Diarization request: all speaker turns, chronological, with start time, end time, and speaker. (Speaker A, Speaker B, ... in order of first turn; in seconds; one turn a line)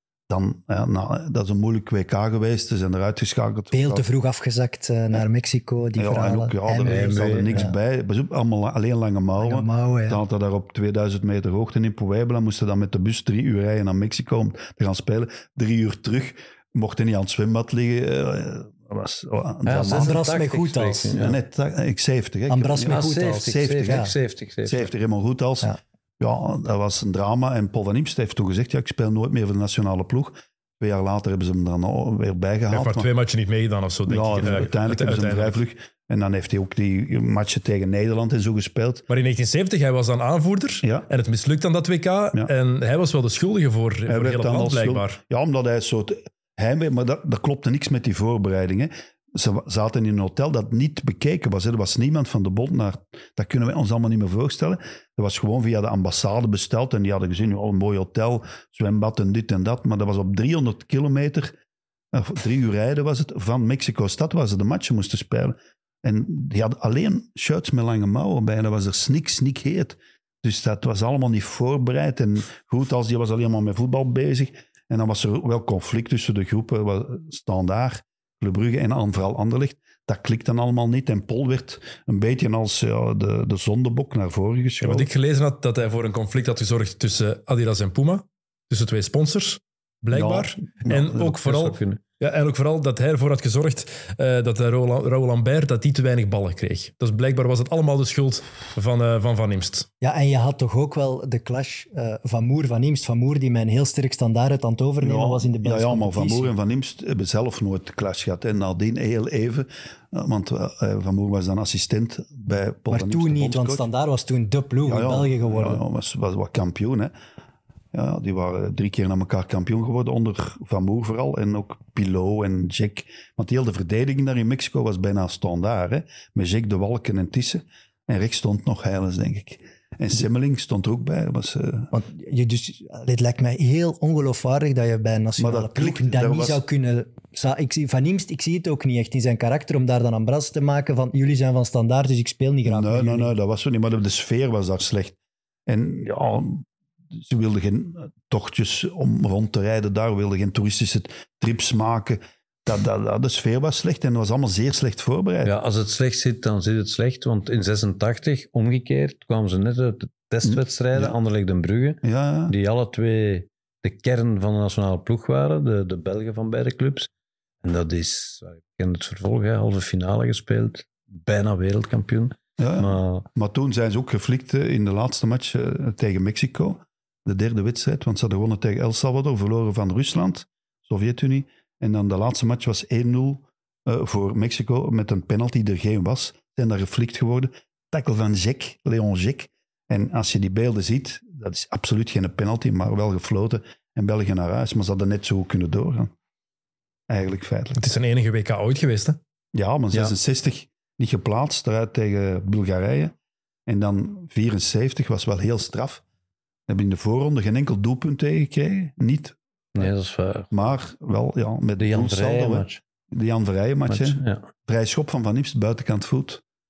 Speaker A: 0.3-4.0
Speaker B: 3.7-7.8
Speaker A: 6.0-20.2
Speaker C: 6.8-7.7
Speaker B: 9.4-10.2
Speaker C: 19.6-21.4
Speaker B: 19.8-21.2
Speaker A: 21.1-24.1
Speaker B: 22.5-24.1
Speaker C: 22.9-24.9
Speaker A: 24.6-33.1
Speaker D: 32.7-35.6
Speaker A: 34.1-39.0
Speaker D: 39.1-45.2
Speaker A: 40.8-41.1
Speaker A: 44.1-61.5
Speaker A: 62.1-85.1
Speaker D: 84.8-99.9
Speaker A: 90.1-91.3
Speaker C: 91.2-92.0
Speaker B: 100.0-106.5
Speaker A: 105.0-113.8
Speaker B: 112.9-115.8
Speaker A: 114.8-117.1
Speaker A: 117.9-131.9
Speaker B: 131.9-143.3
Speaker A: 135.4-136.6
Speaker A: 142.7-145.2
Speaker A: 145.7-155.5
Speaker C: 155.4-167.1
Speaker A: 160.4-161.2
Speaker A: 162.0-162.5
Speaker C: 167.6-173.2
Speaker A: 172.6-196.1
Speaker A: 197.1-197.8
Speaker D: 197.7-199.2
Speaker A: 199.5-203.1
Speaker A: 203.7-206.0
Speaker A: 206.7-209.9
Speaker C: 209.7-210.5
Speaker A: 210.5-216.4
Speaker C: 211.8-212.8
Speaker C: 213.9-214.5